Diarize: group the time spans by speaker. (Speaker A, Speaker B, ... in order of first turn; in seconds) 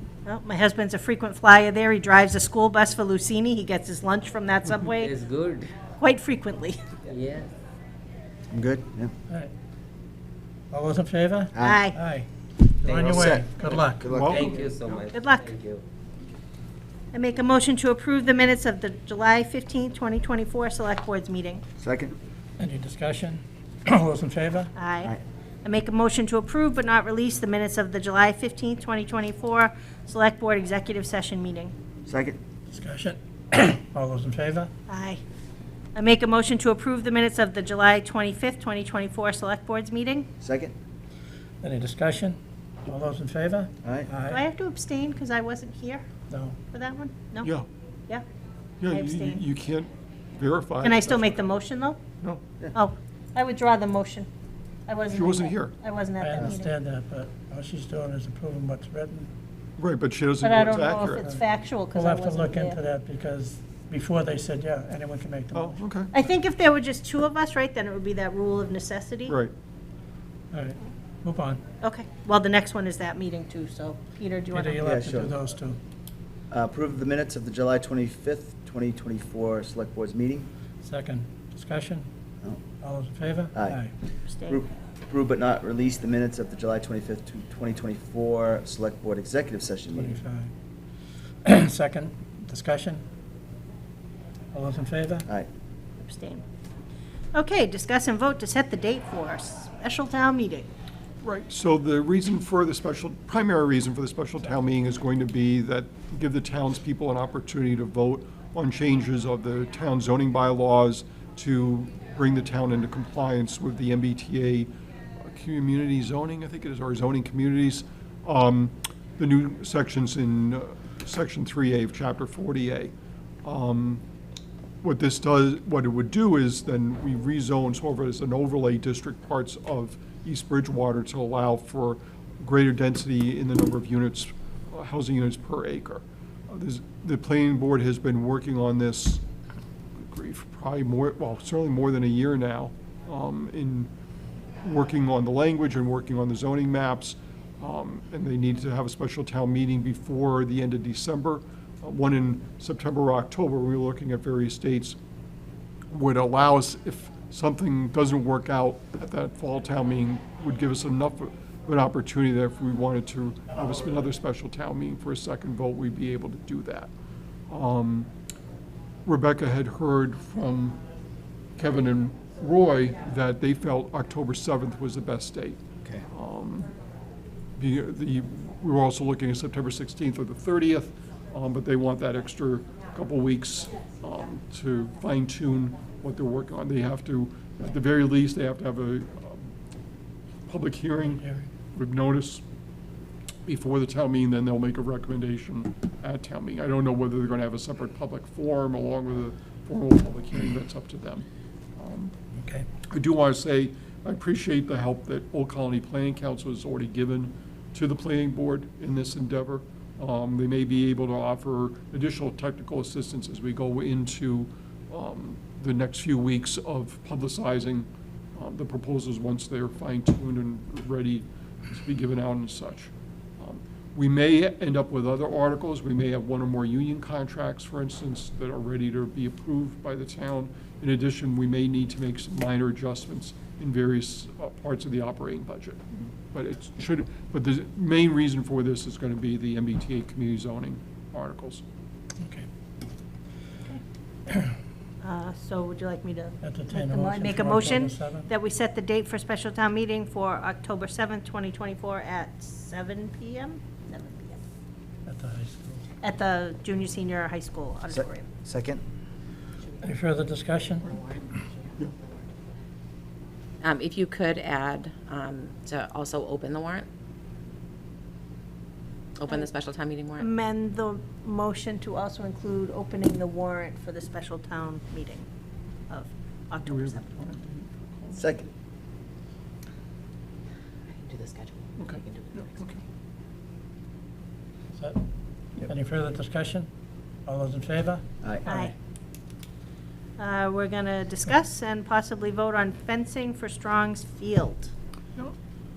Speaker A: 0.2-5.1, 6.0-6.8, 11.7-12.0, 15.1-15.5, 17.1-21.6, 24.8-25.1, 25.6-31.7, 34.9-35.2, 35.9-40.3, 44.3-46.0, 46.7-47.5, 48.9-49.5, 50.8-52.0, 52.8-54.3, 54.9-56.7, 60.4-62.8, 66.1-69.3, 71.8-74.8, 84.3-84.6, 96.0-96.4, 97.3-100.7, 245.0-254.4, 256.0-258.3, 270.2-275.3, 275.9-277.2, 288.5-288.7, 290.2-294.7
Speaker B: 4.9-5.9, 7.1-7.5, 12.9-13.2, 14.3-15.8
Speaker C: 8.5-9.1, 11.5-11.9, 12.9-14.5, 21.8-22.2, 32.1-32.4, 40.4-40.7, 43.8-44.1, 74.8-75.4, 76.5-80.5, 83.5-83.8, 84.5-90.2, 257.9-258.8, 278.2-278.5
Speaker D: 10.7-12.3, 12.8-14.1, 22.6-24.7, 32.7-34.7, 41.6-44.4, 46.3-46.6, 56.2-59.3, 61.2-65.8, 70.5-71.6, 74.5-75.8, 80.8-82.1, 82.8-83.9, 90.0-90.5, 91.4-93.0, 94.5-95.3, 191.1-191.5, 202.4-202.7, 242.2-242.5, 246.4-248.3, 255.1-255.8, 259.8-260.9, 284.7-285.0, 285.6-286.7, 287.3-288.7
Speaker E: 14.1-14.5, 47.4-47.7, 48.8-51.4, 55.1-55.8, 59.8-61.3, 65.5-66.1, 69.3-69.5, 101.2-114.7, 115.3-122.9, 123.4-124.0, 124.8-139.2, 140.0-143.9, 144.6-155.0, 155.9-166.9, 167.5-168.1, 169.1-170.8, 171.6-175.6, 176.1-176.7, 177.6-189.5, 190.5-192.4, 193.5-201.3, 201.8-202.1, 202.9-241.6, 276.6-278.4, 281.8-282.8
Speaker F: 263.6-266.9, 269.2-270.2